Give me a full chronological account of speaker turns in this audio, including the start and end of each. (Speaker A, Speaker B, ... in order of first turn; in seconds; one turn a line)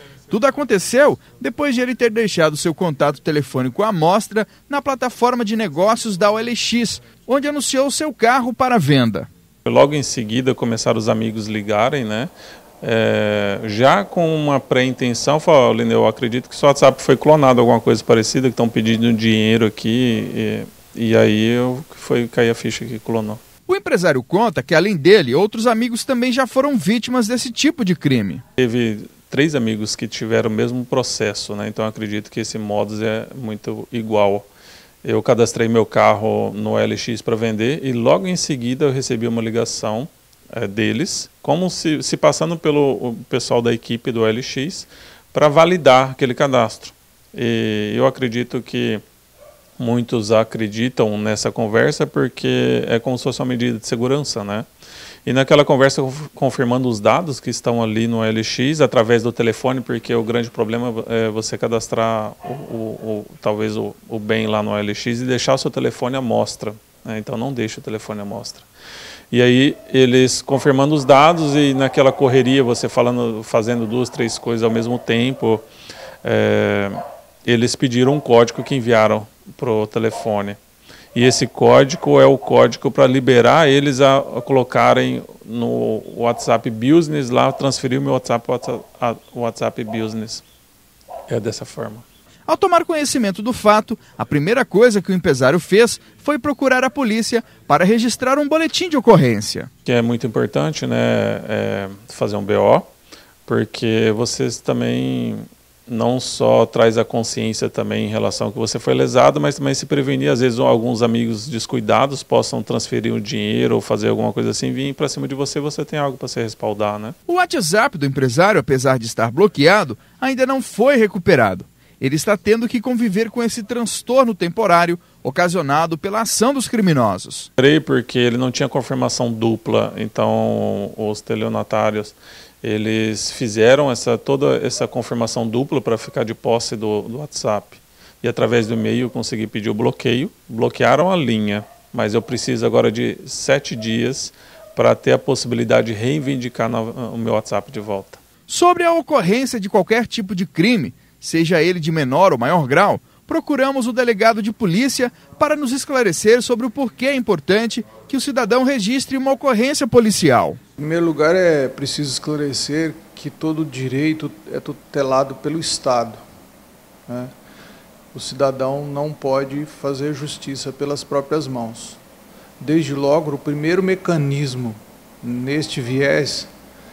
Speaker A: 0.3-9.3
Speaker B: 9.7-23.4
Speaker A: 23.7-28.4
Speaker B: 28.6-34.5
Speaker B: 35.0-49.0
Speaker B: 49.8-54.7
Speaker B: 55.2-68.7
Speaker B: 69.3-75.6
Speaker B: 76.2-80.6
Speaker B: 81.1-90.4
Speaker B: 91.3-92.0
Speaker A: 92.5-99.7
Speaker B: 99.8-102.9
Speaker B: 103.5-117.1
Speaker A: 117.3-127.5
Speaker B: 127.6-148.2
Speaker A: 148.5-160.6
Speaker C: 160.8-166.2
Speaker C: 167.1-167.3
Speaker C: 168.1-172.0
Speaker C: 172.6-176.5